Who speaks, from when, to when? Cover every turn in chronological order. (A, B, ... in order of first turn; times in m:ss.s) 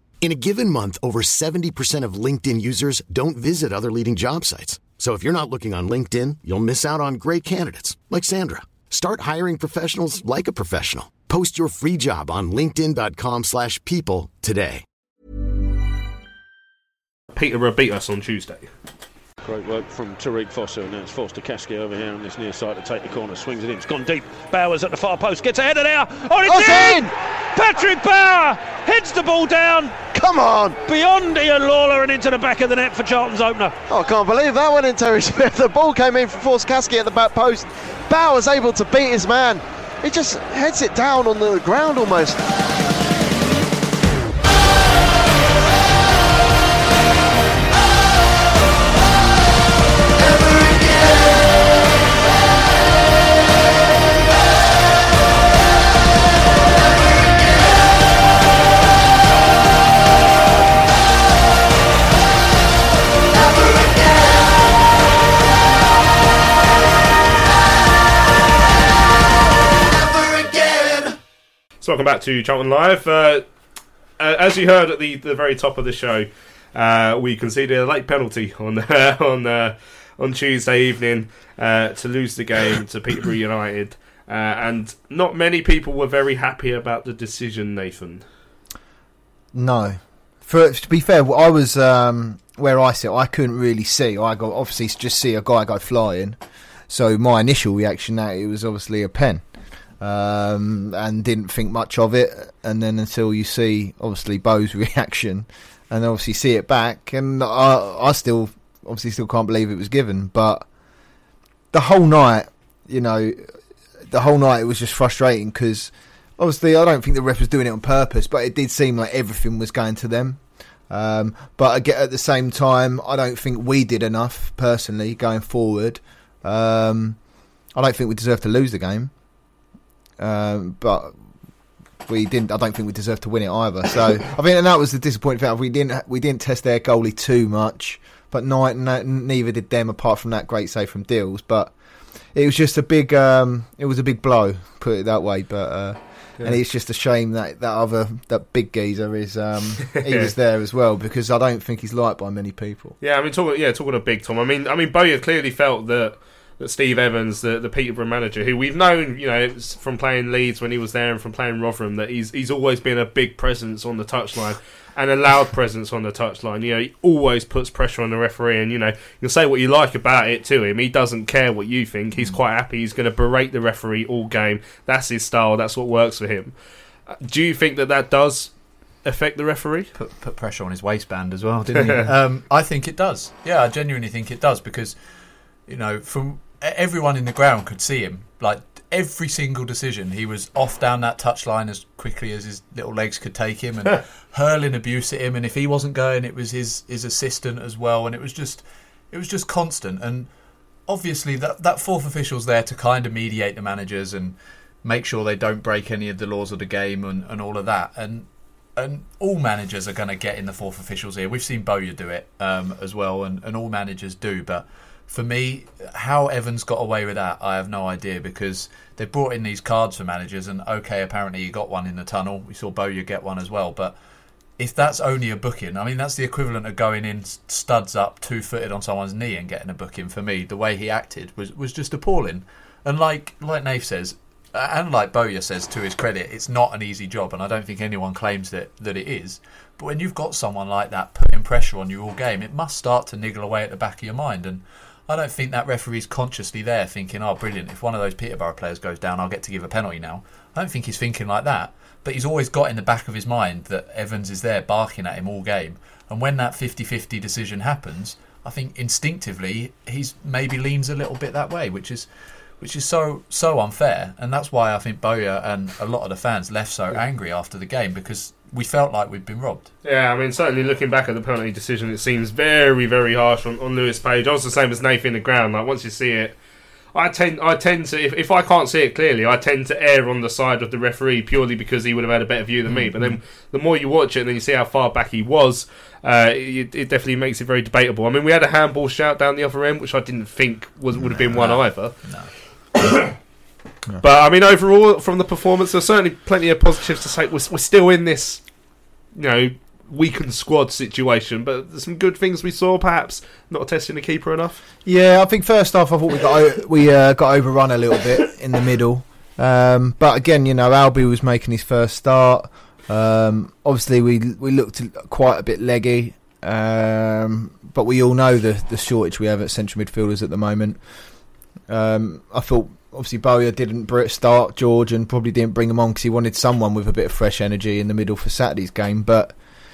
0:00.2-0:14.8 A
0:17.3-0:18.7 B
0:19.4-0:30.0 C
0:26.4-0:27.1 D
0:30.1-0:30.8 D
0:30.8-0:33.8 C
0:33.9-0:42.4 D
1:11.8-1:13.5 B
1:14.2-1:28.2 B
1:29.5-1:36.4 E
1:36.9-1:39.4 E
1:40.0-1:50.7 E
1:51.7-1:53.5 E
1:54.1-2:07.2 E
2:07.8-2:09.1 E
2:10.2-2:11.1 E
2:12.0-2:21.7 E
2:22.3-2:33.0 E
2:30.0-2:30.3 B
2:33.0-2:56.6 B
2:57.1-2:58.5 B
2:59.0-2:59.9 B
3:00.0-3:05.0 F
3:05.7-3:20.3 F
3:20.9-3:44.0 F
3:44.6-4:22.1 F
4:22.6-4:29.7 F
4:29.8-4:36.4 B
4:36.9-4:52.0 B
4:51.0-4:52.3 F
4:54.0-4:58.4 B
4:59.2-5:04.6 B
5:04.8-5:20.8 E
5:21.7-5:29.4 E